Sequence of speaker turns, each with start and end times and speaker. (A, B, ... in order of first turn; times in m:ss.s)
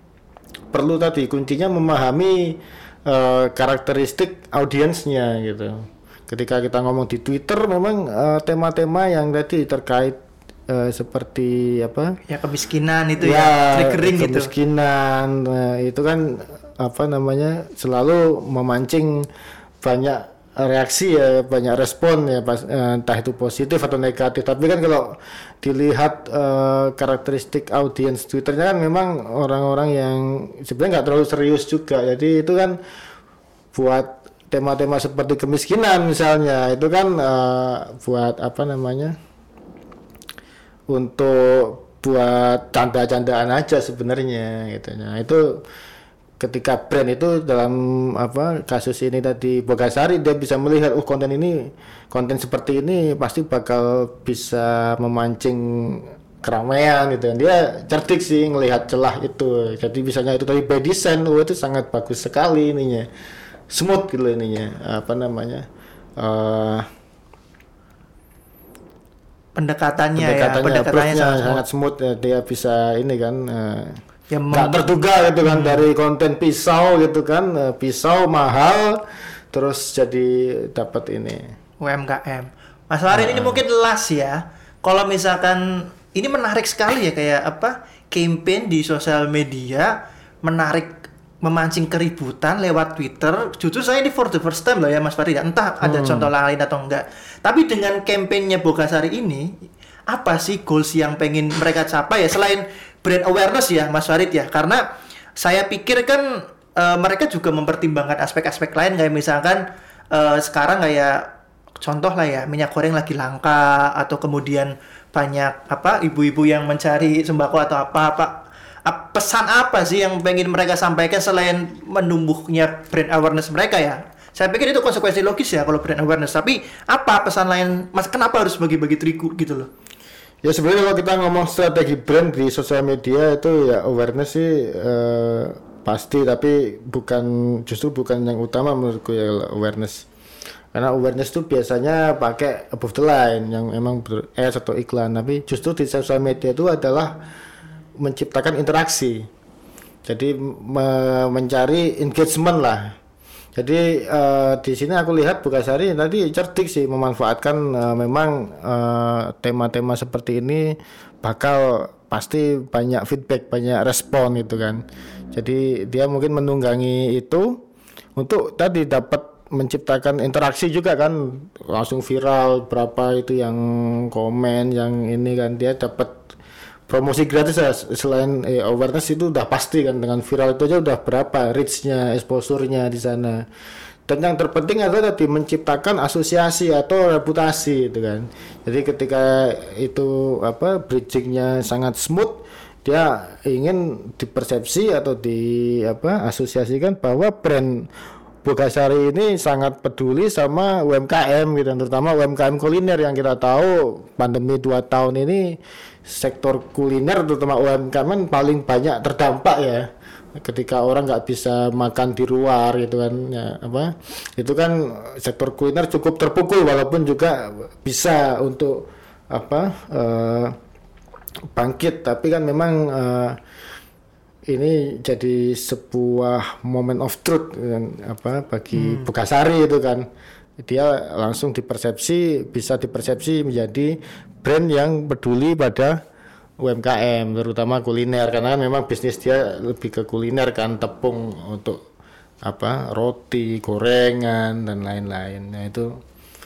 0:00.7-0:12.2 A
0:12.3-0:14.5 B
0:13.2-0:19.3 A
0:19.8-0:32.8 A
0:33.7-0:39.2 A
0:40.9-0:45.6 A
0:46.4-1:03.1 A
1:03.7-1:06.9 A
1:09.6-1:11.6 B
1:10.2-1:14.0 A
1:14.3-1:14.9 B
1:14.5-1:21.5 A
1:15.4-1:15.8 B
1:21.8-1:39.5 B
1:23.1-1:23.6 A
1:35.8-1:36.3 A
1:40.1-1:44.8 B
1:45.4-1:51.3 B
1:51.8-2:09.7 B
2:10.4-2:20.0 A
2:20.7-2:27.2 A
2:28.0-2:29.3 A
2:30.0-2:33.0 A
2:33.6-2:47.6 A
2:48.2-2:56.2 A
2:56.9-3:03.4 A
3:04.1-3:17.9 A
3:18.4-3:40.6 A
3:41.5-3:43.4 A
3:44.5-3:50.1 A
3:48.7-3:49.1 B
3:50.6-3:56.0 A
3:56.6-4:01.8 A
4:02.4-4:06.0 A